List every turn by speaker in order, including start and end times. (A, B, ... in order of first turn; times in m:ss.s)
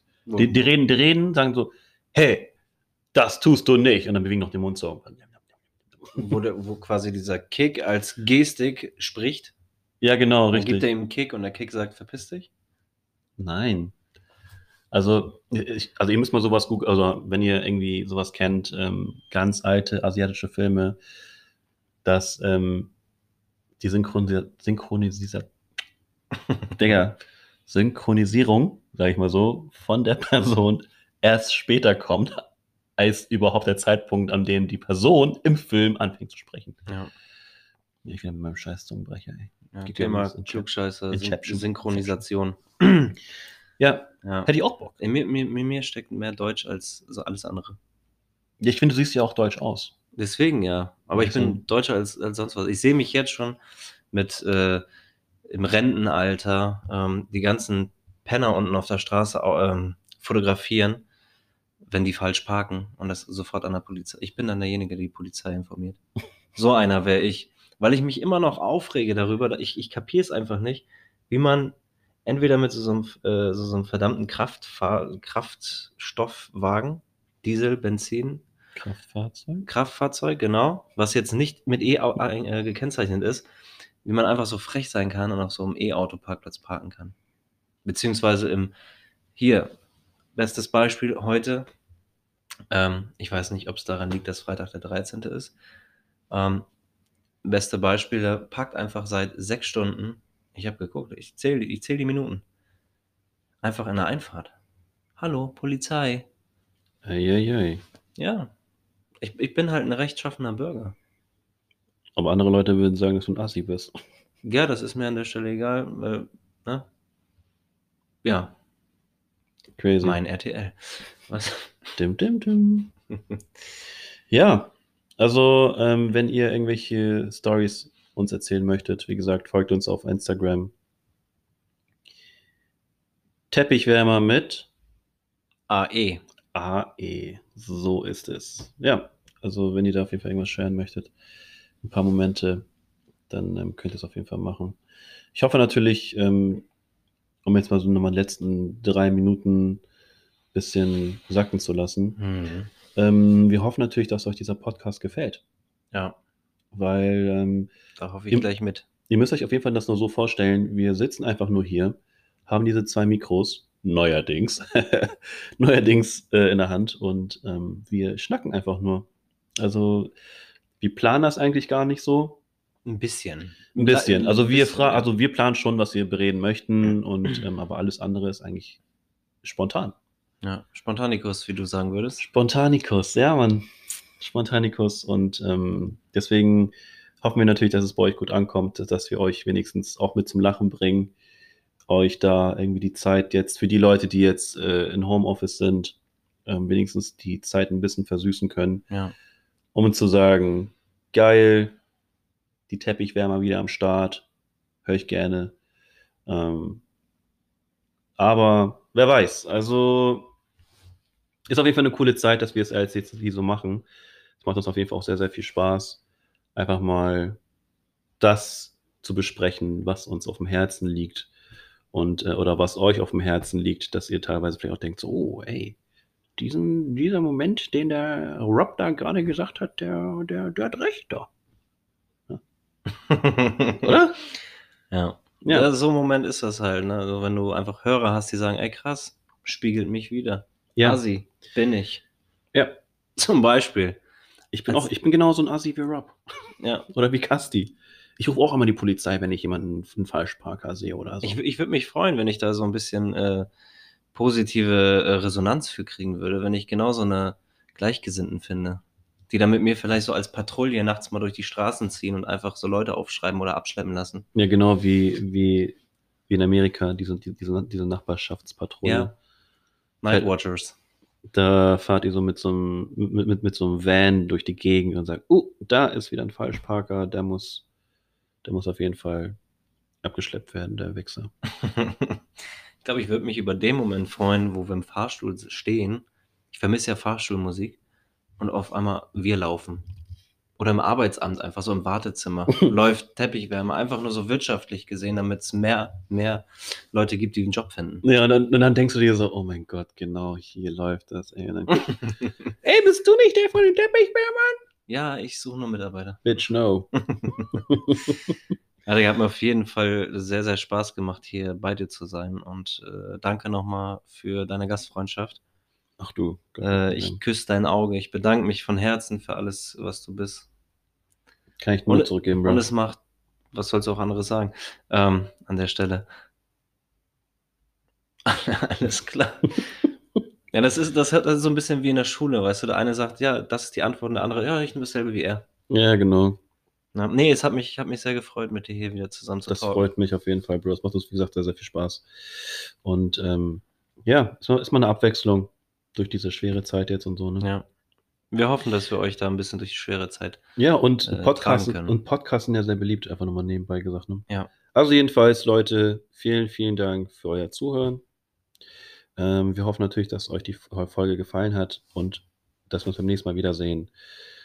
0:00.3-0:00.6 A
0:00.4-0:02.5 B
0:03.1-0:05.4 B
0:06.2-0:09.5 A
0:10.0-0:10.9 B
0:10.5-0:12.5 A
0:13.4-0:14.0 B
0:14.9-0:21.0 B
0:22.0-0:22.9 B
0:23.8-0:25.5 B
0:26.8-0:32.5 B
0:33.0-0:36.8 B
0:36.9-0:37.1 A
0:38.0-0:42.2 B
0:39.7-0:43.2 A
0:43.8-0:45.0 B
0:44.2-0:47.8 A
0:48.6-0:49.9 B
0:50.2-0:53.6 A
0:51.2-0:51.6 B
0:54.1-0:54.8 A
0:55.5-1:01.0 A
1:01.9-1:06.0 A
1:06.6-1:11.7 A
1:12.3-1:18.4 A
1:18.8-1:19.7 B
1:19.6-1:23.5 A
1:24.0-1:27.2 A
1:27.8-1:28.7 A
1:29.4-1:29.7 A
1:30.4-1:31.7 A
1:32.7-1:35.5 A
1:36.3-1:36.7 A
1:37.4-1:42.4 A
1:43.6-1:44.5 A
1:45.2-1:46.3 A
1:47.0-1:47.8 B
1:48.2-1:48.5 A
1:49.2-1:51.0 A
1:52.2-1:53.9 B
1:54.4-1:56.9 A
1:58.2-1:58.5 A
1:59.8-2:00.2 B
2:00.0-2:01.8 A
2:02.0-2:02.9 B
2:04.3-2:10.7 B
2:13.5-2:14.7 B
2:15.7-2:16.2 A
2:16.5-2:21.1 B
2:21.8-2:22.6 B
2:23.3-2:24.8 B
2:25.3-2:26.7 B
2:27.4-2:29.8 B
2:30.5-2:32.2 B
2:32.2-2:32.7 A
2:33.0-2:35.4 B
2:35.9-2:36.2 A
2:36.7-2:37.7 B
2:38.0-2:38.9 A
2:39.1-2:49.1 B
2:49.6-2:50.1 B
2:50.8-2:52.4 B
2:52.9-2:55.1 A
2:53.8-2:58.8 B
2:59.4-3:00.0 B
3:00.4-3:02.3 A
3:02.2-3:11.1 B
3:11.9-3:18.9 B
3:19.7-3:21.8 B
3:22.7-3:24.3 B
3:24.8-3:25.6 B
3:26.3-3:26.8 B
3:28.2-3:30.3 B
3:31.5-3:33.9 B
3:34.4-3:36.0 B
3:36.6-3:37.4 B
3:38.2-3:41.3 B
3:41.9-3:45.8 B
3:46.4-3:51.3 B
3:52.9-3:54.0 A
3:53.8-3:54.2 B
3:54.9-4:02.0 A
4:02.5-4:02.8 B
4:03.2-4:04.0 A
4:04.5-4:06.2 B
4:06.6-4:06.9 A
4:06.9-4:11.4 B
4:11.2-4:13.5 A
4:14.1-4:24.2 A
4:24.4-4:25.8 B
4:26.3-4:29.2 B
4:28.8-4:29.1 A
4:30.0-4:30.8 A
4:31.3-4:37.6 B
4:38.4-4:39.4 B
4:40.0-4:41.3 B
4:41.6-4:42.2 A
4:42.8-4:47.8 A
4:48.4-4:49.9 A
4:50.6-4:58.0 A
4:58.0-5:02.0 B
5:02.6-5:04.6 B
5:04.9-5:06.3 A
5:06.2-5:06.9 B
5:07.1-5:07.6 A
5:07.5-5:08.3 B
5:08.9-5:15.4 A
5:16.0-5:17.2 B
5:16.6-5:20.5 A
5:21.6-5:22.6 B
5:21.9-5:23.0 A
5:23.5-5:26.1 A
5:28.2-5:29.7 A
5:30.5-5:35.4 A
5:35.7-5:36.4 B
5:37.0-5:39.9 A
5:39.5-5:47.5 B
5:47.4-5:47.7 A
5:48.3-5:50.4 A
5:50.6-5:58.0 B
5:51.1-5:52.0 A
5:59.2-6:03.9 B